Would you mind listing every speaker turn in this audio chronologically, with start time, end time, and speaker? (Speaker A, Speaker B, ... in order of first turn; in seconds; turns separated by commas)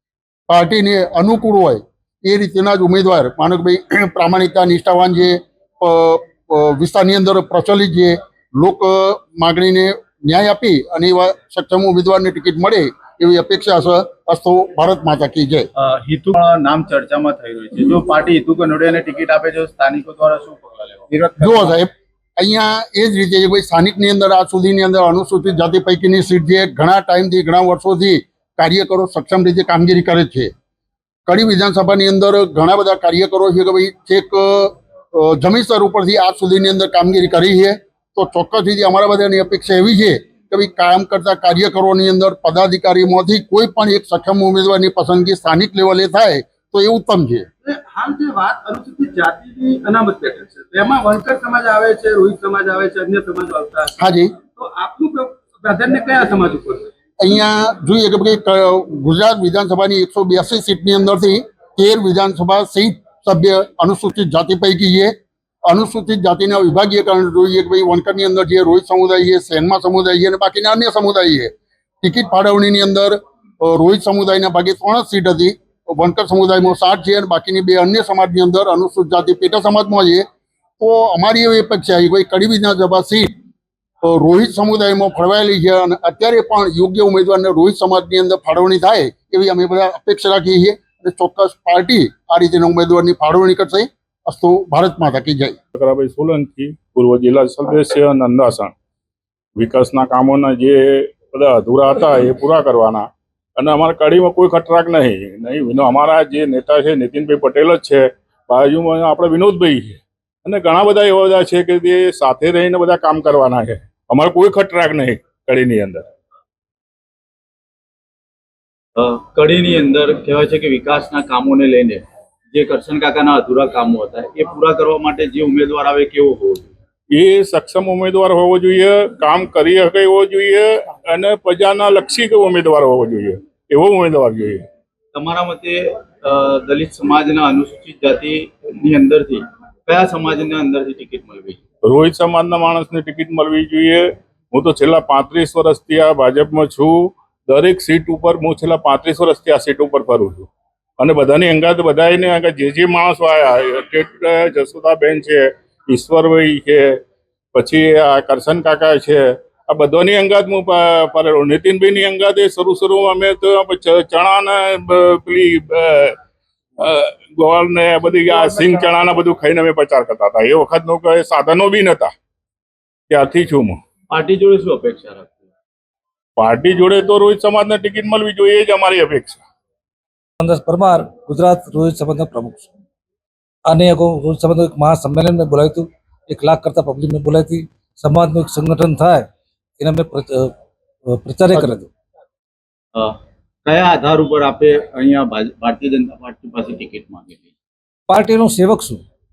Speaker A: 0.5-15.7, Speaker B: 15.8-21.8, Speaker A: 21.4-30.5, Speaker A: 31.3-47.5, Speaker C: 47.6-53.9, Speaker A: 54.0-54.3, Speaker C: 54.6-56.8, Speaker A: 57.2-65.1, Speaker A: 65.7-80.2, Speaker A: 80.8-83.3, Speaker A: 84.0-95.5, Speaker D: 95.7-98.7, Speaker D: 99.6-103.0, Speaker D: 103.6-116.0, Speaker B: 119.0-122.0, Speaker B: 122.5-126.7, Speaker D: 127.1-134.6, Speaker B: 135.1-141.6, Speaker D: 141.8-150.5, Speaker D: 151.0-157.0, Speaker D: 157.5-166.2, Speaker D: 166.8-172.1, Speaker D: 173.1-173.8, Speaker B: 174.1-175.4, Speaker D: 176.4-179.4, Speaker E: 180.4-182.7, Speaker E: 183.6-189.3, Speaker E: 189.8-190.5, Speaker E: 191.1-191.9, Speaker B: 193.7-197.4, Speaker E: 198.1-199.0